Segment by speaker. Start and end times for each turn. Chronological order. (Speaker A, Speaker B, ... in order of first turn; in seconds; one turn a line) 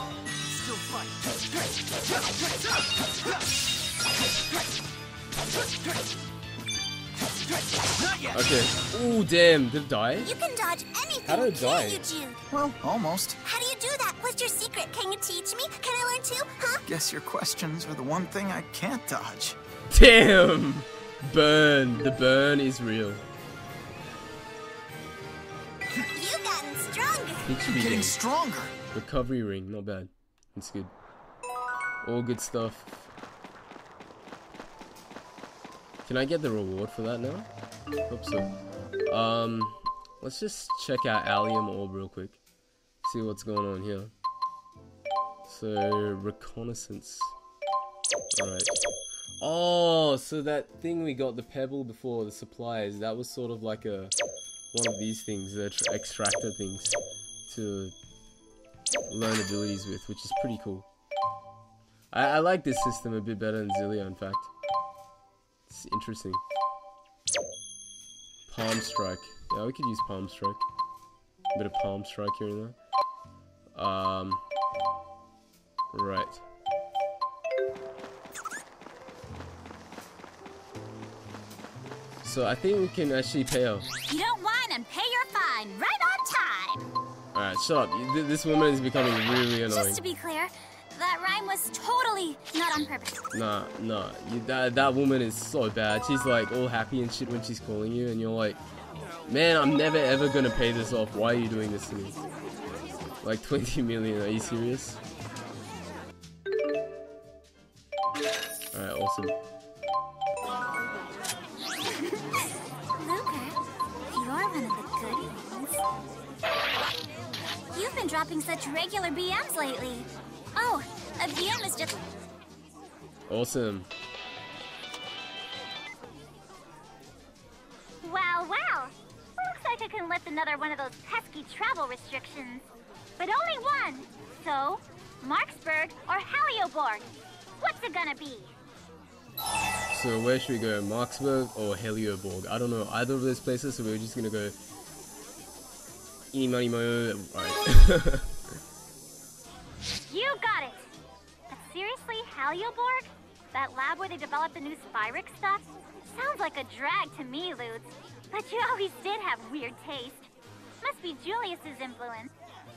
Speaker A: 0.5-1.2
Speaker A: 8.0-8.4
Speaker B: 8.3-10.3
Speaker C: 10.2-12.4
Speaker B: 11.2-12.0
Speaker A: 12.5-13.4
Speaker C: 13.4-16.9
Speaker A: 16.9-19.6
Speaker B: 19.9-23.2
Speaker C: 26.1-27.5
Speaker B: 27.4-28.2
Speaker A: 27.6-28.7
Speaker B: 28.9-30.9
Speaker B: 32.0-33.1
Speaker B: 36.0-37.5
Speaker B: 38.1-38.5
Speaker B: 39.1-42.4
Speaker B: 43.0-44.1
Speaker B: 45.5-47.3
Speaker B: 48.4-48.7
Speaker B: 49.4-54.1
Speaker B: 54.7-57.0
Speaker B: 57.5-57.9
Speaker B: 59.1-60.9
Speaker B: 62.1-64.5
Speaker B: 65.7-66.4
Speaker B: 68.5-70.7
Speaker B: 71.5-72.8
Speaker B: 73.8-74.4
Speaker B: 75.9-76.4
Speaker B: 82.2-83.9
Speaker D: 84.1-86.9
Speaker B: 87.3-90.0
Speaker D: 89.7-93.2
Speaker B: 93.3-98.6
Speaker B: 99.3-102.2
Speaker B: 103.2-105.0
Speaker B: 108.7-109.3
Speaker D: 113.0-113.5
Speaker D: 114.1-115.8
Speaker D: 117.7-122.0
Speaker B: 123.3-123.9
Speaker D: 128.0-132.7
Speaker D: 133.2-137.1
Speaker D: 137.6-138.5
Speaker B: 139.9-144.6
Speaker B: 146.3-148.3
Speaker D: 150.1-150.8
Speaker D: 151.5-160.3
Speaker D: 160.8-162.3